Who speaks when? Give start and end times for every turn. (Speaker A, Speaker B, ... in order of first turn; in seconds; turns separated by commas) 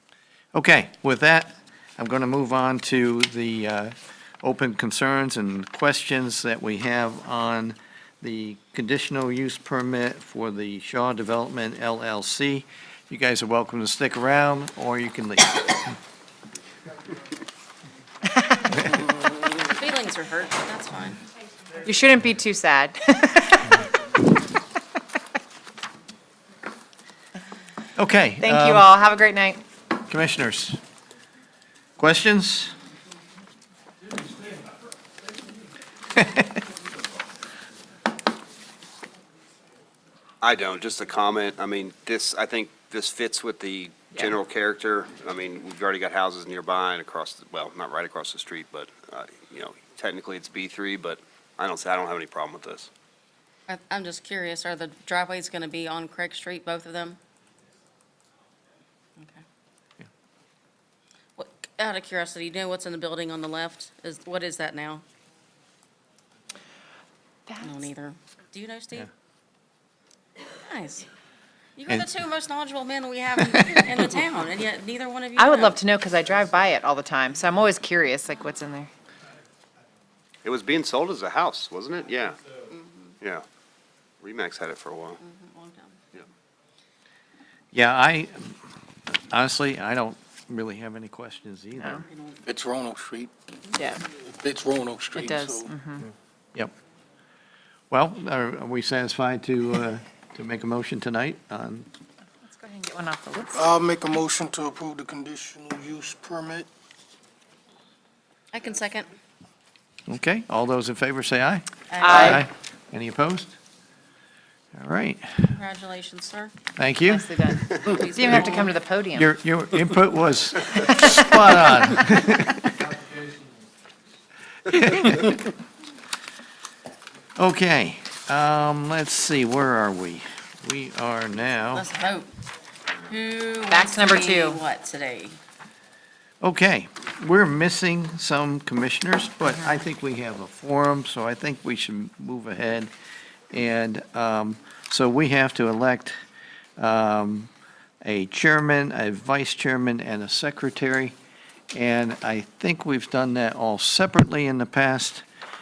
Speaker A: 0.5-15.9, Speaker B: 18.8-21.2, Speaker C: 21.8-23.9, Speaker A: 27.9-28.9, Speaker C: 28.4-29.6, Speaker A: 30.1-30.8, Speaker A: 32.0-32.7, Speaker D: 40.4-52.9, Speaker B: 53.7-57.2, Speaker B: 59.2-59.4, Speaker B: 61.4-65.0, Speaker C: 67.5-67.9, Speaker B: 67.6-69.1, Speaker B: 70.5-71.1, Speaker B: 71.8-75.8, Speaker A: 73.5-73.8, Speaker C: 75.3-78.9, Speaker D: 80.4-82.4, Speaker B: 82.7-83.1, Speaker D: 84.2-85.2, Speaker B: 85.2-86.0, Speaker A: 87.7-88.6, Speaker A: 89.1-92.0, Speaker B: 92.0-92.4, Speaker E: 92.5-93.3, Speaker C: 93.8-94.0, Speaker E: 94.2-95.7, Speaker C: 95.1-96.0, Speaker A: 97.9-101.9, Speaker C: 102.4-103.7, Speaker E: 103.6-106.7, Speaker B: 108.5-109.1, Speaker A: 110.1-113.6, Speaker B: 111.9-112.4, Speaker C: 112.0-112.4, Speaker A: 114.7-115.5, Speaker B: 115.5-116.5, Speaker A: 116.8-117.3, Speaker C: 117.0-119.3, Speaker B: 117.8-118.7, Speaker A: 118.3-122.7, Speaker A: 124.7-125.3, Speaker A: 127.4-131.9, Speaker B: 131.7-132.3, Speaker B: 133.1-135.4, Speaker C: 133.7-134.6, Speaker A: 136.4-142.9, Speaker A: 143.5-146.1, Speaker A: 146.8-147.5, Speaker A: 148.0-151.1, Speaker A: 151.7-155.2